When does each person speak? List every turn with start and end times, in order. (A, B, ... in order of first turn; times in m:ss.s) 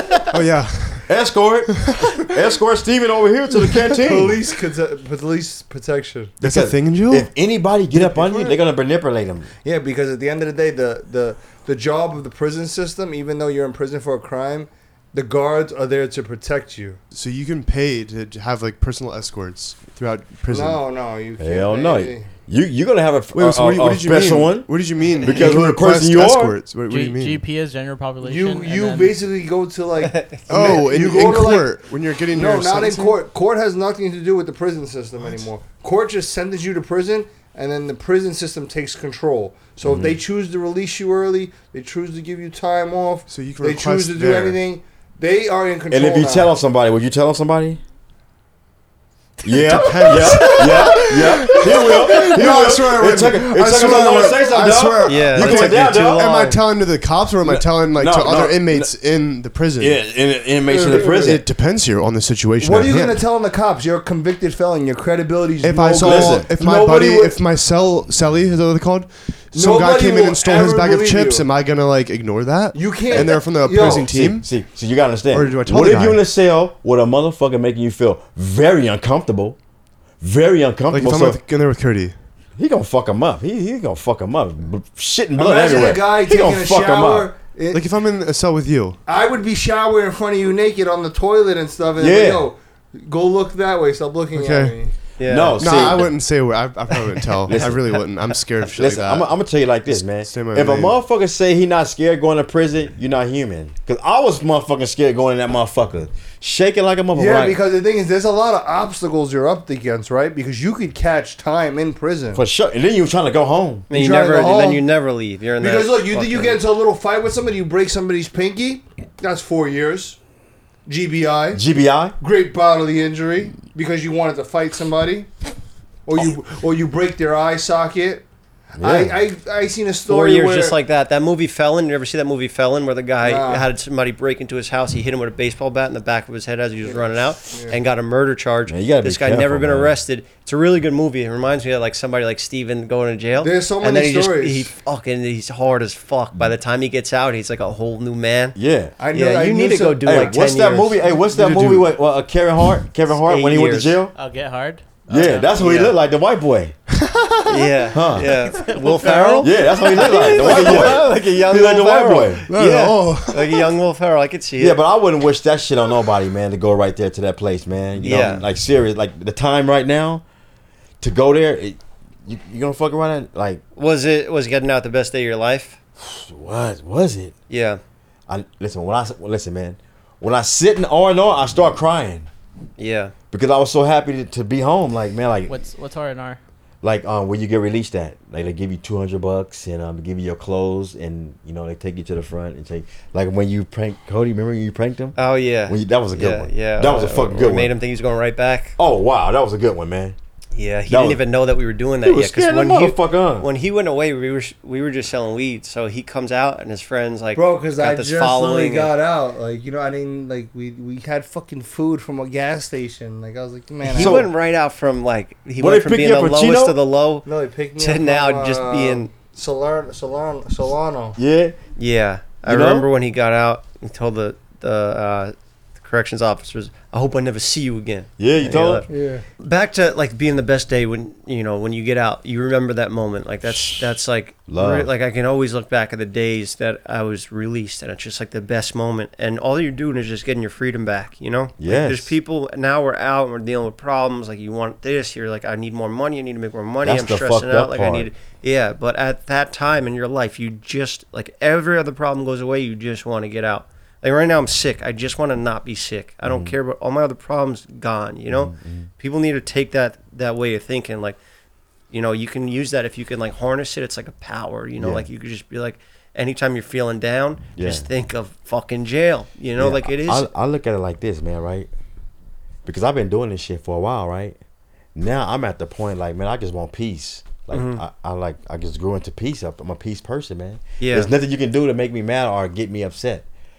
0:00.3-0:01.1 A
0:01.1-0:04.4 B
0:01.7-0:02.1 A
0:03.9-0:06.4 C
0:06.4-0:07.3 A
0:06.4-0:09.5 B
0:08.0-0:08.6 C
0:09.6-0:17.0 C
0:17.1-0:20.8 A
0:20.5-0:22.3 C
0:21.4-0:26.6 B
0:23.3-0:27.5 A
0:26.9-0:29.2 D
0:28.2-0:46.5 C
0:30.0-0:30.8 E
0:30.5-0:33.2 A
0:39.8-0:40.2 B
0:43.3-0:44.6 A
0:45.9-0:47.8 B
0:49.4-0:50.8 D
0:49.4-0:56.2 B
0:49.5-1:00.0 A
0:53.8-0:54.8 C
0:55.0-0:56.6 E
0:57.4-0:58.9 B
0:59.8-1:01.5 B
1:00.7-1:01.4 C
1:00.9-1:03.2 A
1:02.6-1:07.4 C
1:05.6-1:14.5 A
1:06.0-1:06.5 B
1:09.5-1:11.5 C
1:12.7-1:14.1 C
1:13.2-1:19.6 B
1:15.3-1:16.2 A
1:20.2-1:21.4 B
1:20.9-1:22.2 A
1:22.6-1:27.3 B
1:25.4-1:27.8 C
1:27.7-1:29.0 A
1:29.1-1:35.0 C
1:32.0-1:32.5 B
1:34.3-1:34.8 A
1:35.2-1:35.8 E
1:35.2-1:36.1 B
1:35.6-1:39.4 A
1:37.5-1:37.9 B
1:38.6-1:47.6 B
1:39.9-1:41.0 A
1:47.2-1:52.4 C
1:52.3-1:53.9 B
1:53.9-1:56.6 E
1:53.9-1:54.8 C
1:55.6-2:00.2 C
2:00.9-2:01.6 C
2:01.5-2:02.2 B
2:02.2-2:05.3 C
2:06.1-2:08.2 C
2:08.8-2:09.2 B
2:08.8-2:10.8 C
2:10.1-2:28.6 E
2:13.2-2:13.7 C
2:16.8-2:17.8 C
2:18.7-2:19.9 B
2:23.4-2:24.7 C
2:28.6-2:29.0 B
2:29.0-2:30.4 C
2:29.1-2:31.0 E
2:30.0-2:34.1 B
2:31.1-2:31.9 A
2:33.2-2:34.0 E
2:34.2-2:35.6 D
2:35.1-2:36.8 B
2:35.6-2:35.9 E
2:37.0-2:37.9 A
2:37.5-2:44.8 E
2:37.9-2:38.3 B
2:38.2-2:40.8 D
2:39.4-2:42.5 B
2:42.5-2:43.8 A
2:44.6-2:50.2 B
2:48.0-2:48.4 E
2:51.0-2:53.6 B
2:53.8-2:55.8 E
2:56.0-2:57.3 B
2:57.5-2:57.8 E
2:58.3-3:02.3 B
3:02.8-3:03.1 E
3:03.3-3:05.5 B
3:05.5-3:06.4 D
3:06.8-3:17.7 B
3:15.2-3:18.8 E
3:18.8-3:20.2 B
3:20.5-3:28.9 E
3:20.9-3:21.2 B
3:22.0-3:23.5 B
3:27.4-3:34.2 C
3:33.8-3:37.3 E
3:34.0-3:34.3 B
3:35.6-3:36.8 B
3:37.2-3:41.2 C
3:37.8-3:39.1 E
3:41.2-3:41.6 B
3:41.8-3:48.9 E
3:42.5-3:42.9 B
3:48.2-3:48.8 B
3:48.9-3:49.2 C
3:49.4-4:21.2 E
3:53.5-3:53.8 B
3:54.5-3:54.9 B
4:01.6-4:02.1 B
4:06.8-4:08.1 B
4:16.2-4:16.6 B
4:18.3-4:18.9 B
4:21.9-4:30.3 E
4:24.8-4:25.1 B
4:27.6-4:27.9 B
4:29.6-4:31.7 B
4:32.6-4:34.4 B
4:35.0-4:43.3 B
4:37.5-4:37.8 E
4:40.8-4:41.1 E